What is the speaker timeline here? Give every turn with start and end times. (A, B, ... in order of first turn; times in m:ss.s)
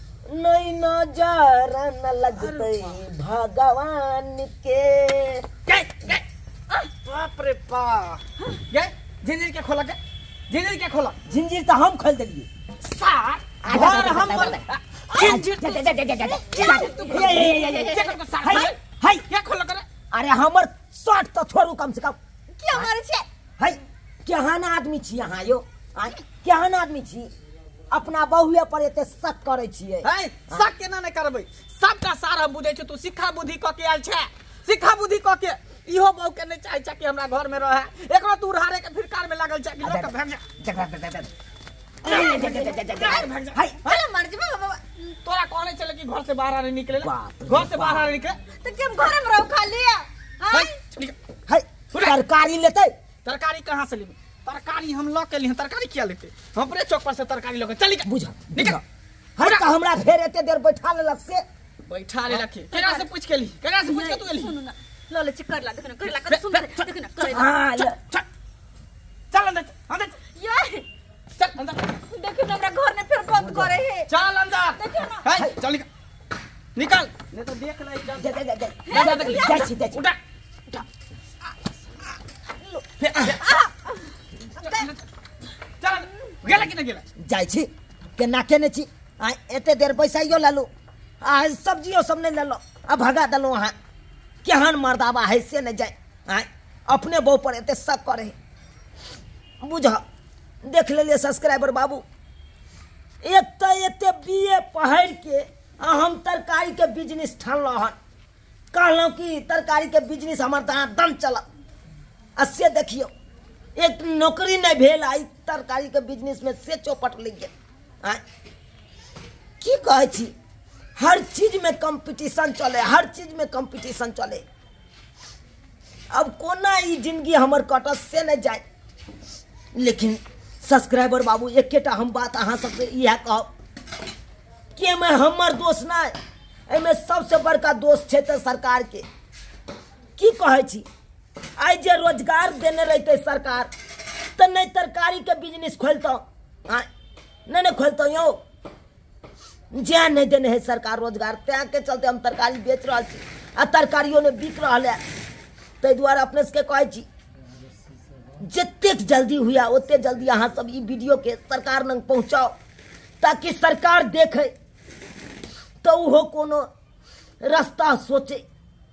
0:00.3-0:05.5 A
0:02.4-0:03.0 B
0:05.7-0:06.2 B
0:07.0-0:11.2 B
0:11.3-0:12.5 A
0:12.8-0:15.9 B
0:13.6-0:14.6 A
0:15.1-0:15.6 C
0:15.2-0:19.2 A
0:16.2-0:17.8 C
0:16.5-0:19.8 B
0:20.1-0:22.2 A
0:22.6-0:23.3 C
0:23.6-0:27.3 A
0:27.9-0:30.7 A
0:30.0-0:40.4 B
0:39.8-0:41.3 A
0:42.0-0:43.8 A
0:42.1-0:43.6 B
0:43.0-0:43.3 C
0:43.8-0:45.1 C
0:45.2-0:48.4 B
0:47.0-0:48.1 A
0:48.6-0:50.8 C
0:50.5-0:51.2 B
0:51.5-0:52.9 A
0:53.2-0:58.8 B
0:58.0-0:58.8 A
0:59.4-1:01.4 A
0:59.4-0:59.7 B
1:01.9-1:04.5 B
1:02.7-1:03.1 C
1:03.8-1:07.6 C
1:06.2-1:06.9 B
1:07.2-1:08.0 A
1:07.8-1:08.2 B
1:09.3-1:10.2 B
1:10.3-1:10.9 C
1:11.4-1:11.9 B
1:12.1-1:14.1 C
1:13.3-1:13.8 A
1:14.1-1:15.9 B
1:14.8-1:15.3 C
1:16.8-1:18.3 B
1:18.2-1:20.0 A
1:18.9-1:19.6 C
1:18.9-1:20.2 B
1:22.8-1:24.1 C
1:23.0-1:23.4 B
1:23.0-1:23.4 A
1:24.6-1:24.8 C
1:24.6-1:25.0 B
1:25.8-1:27.0 B
1:27.2-1:30.7 A
1:31.2-1:33.8 A
1:34.4-1:38.4 A
1:39.6-1:40.0 A
1:40.6-1:42.0 A
1:43.2-1:48.0 A
1:48.7-1:51.4 A
1:52.4-1:53.1 A
1:53.8-1:57.5 A
1:59.6-2:00.3 A
2:01.0-2:04.4 A
2:06.1-2:08.6 A
2:09.8-2:13.5 A
2:14.8-2:16.1 A
2:16.7-2:19.0 A
2:20.2-2:20.8 A
2:21.6-2:23.7 A
2:24.4-2:26.9 A
2:27.5-2:28.4 A
2:29.7-2:35.0 A
2:35.8-2:37.1 A
2:38.4-2:42.6 A
2:43.2-2:44.5 A
2:45.8-2:46.7 A
2:47.4-2:48.4 A